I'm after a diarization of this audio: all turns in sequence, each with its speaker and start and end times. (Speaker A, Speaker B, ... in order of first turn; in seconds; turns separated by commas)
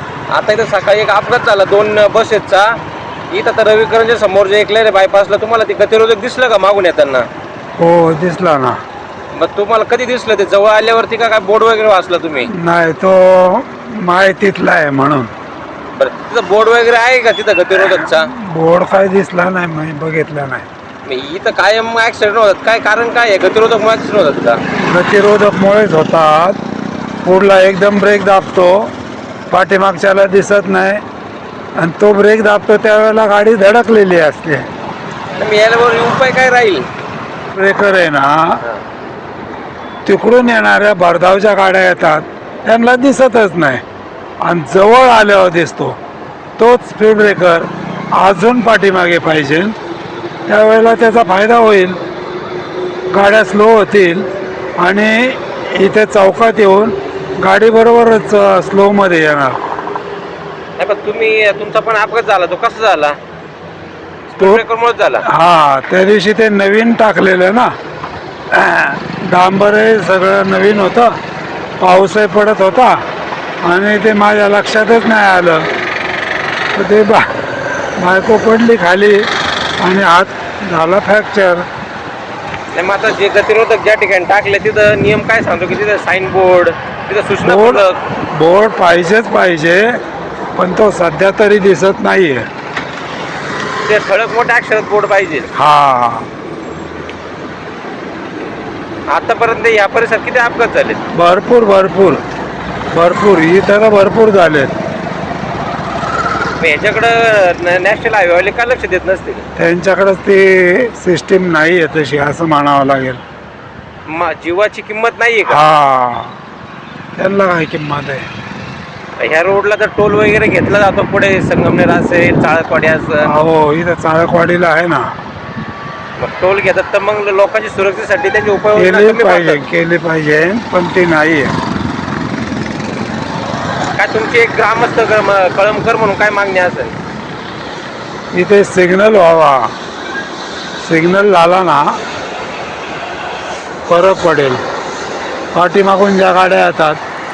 Speaker A: 0.3-2.7, Speaker A: 3.3-7.3, Speaker B: 7.8-8.8, Speaker A: 9.3-12.5, Speaker B: 12.5-15.3, Speaker A: 15.9-18.3, Speaker B: 18.1-20.7, Speaker A: 21.1-24.6, Speaker B: 24.8-26.6, Speaker B: 27.2-28.9, Speaker B: 29.5-31.0, Speaker B: 31.8-34.7, Speaker A: 35.4-36.9, Speaker B: 37.5-38.6, Speaker B: 40.1-43.8, Speaker B: 44.4-46.0, Speaker B: 46.6-49.8, Speaker B: 50.5-52.0, Speaker B: 53.1-54.3, Speaker B: 54.8-59.6, Speaker A: 60.8-63.1, Speaker A: 64.3-65.2, Speaker B: 65.3-67.7, Speaker B: 68.5-71.2, Speaker B: 71.8-73.0, Speaker B: 73.6-75.7, Speaker B: 76.8-77.3, Speaker B: 78.0-79.3, Speaker B: 79.8-81.7, Speaker A: 82.7-88.0, Speaker B: 87.5-89.8, Speaker B: 90.6-92.5, Speaker A: 93.8-95.5, Speaker B: 95.5-96.3, Speaker A: 99.1-101.0, Speaker B: 101.1-102.2, Speaker B: 102.9-104.7, Speaker A: 106.6-109.4, Speaker B: 109.6-113.2, Speaker A: 114.1-115.6, Speaker B: 115.5-116.3, Speaker B: 117.2-118.3, Speaker A: 119.2-123.3, Speaker B: 123.2-125.1, Speaker A: 126.2-129.6, Speaker B: 128.8-131.5, Speaker A: 134.0-137.0, Speaker B: 138.3-139.7, Speaker B: 140.8-142.0, Speaker B: 143.9-144.6, Speaker B: 145.5-147.0